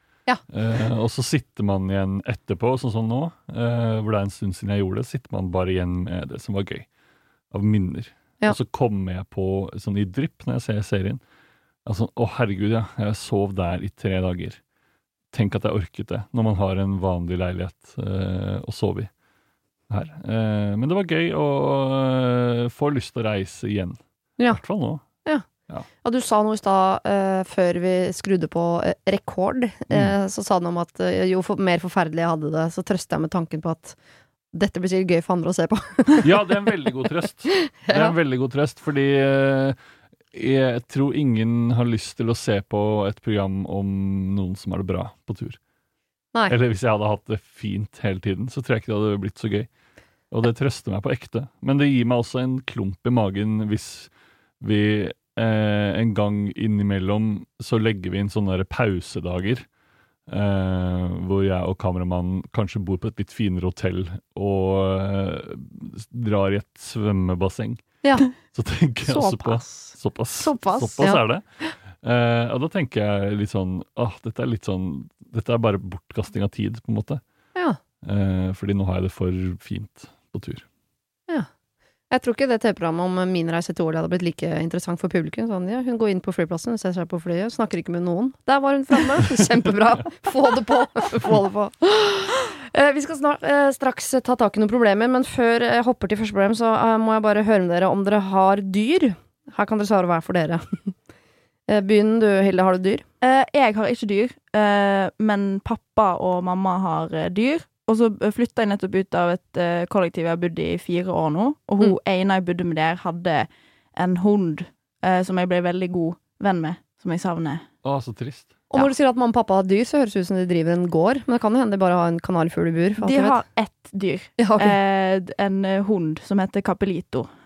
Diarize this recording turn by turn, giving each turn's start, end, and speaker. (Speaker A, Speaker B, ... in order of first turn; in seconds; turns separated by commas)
Speaker A: 0.5-6.9, Speaker A: 7.5-11.2, Speaker A: 11.9-14.6, Speaker A: 15.3-19.1, Speaker A: 19.9-24.0, Speaker A: 24.5-25.0, Speaker B: 26.0-34.0, Speaker B: 34.5-36.3, Speaker A: 36.2-39.8, Speaker B: 37.8-38.1, Speaker A: 40.3-45.6, Speaker A: 46.5-49.7, Speaker A: 50.3-59.7, Speaker A: 60.3-77.2, Speaker B: 68.0-68.3, Speaker B: 69.1-71.7, Speaker A: 78.0-80.7, Speaker B: 82.1-100.9, Speaker B: 101.7-103.0, Speaker C: 103.2-117.6, Speaker A: 117.8-118.6, Speaker B: 118.7-123.4, Speaker C: 123.0-127.3, Speaker B: 124.4-124.8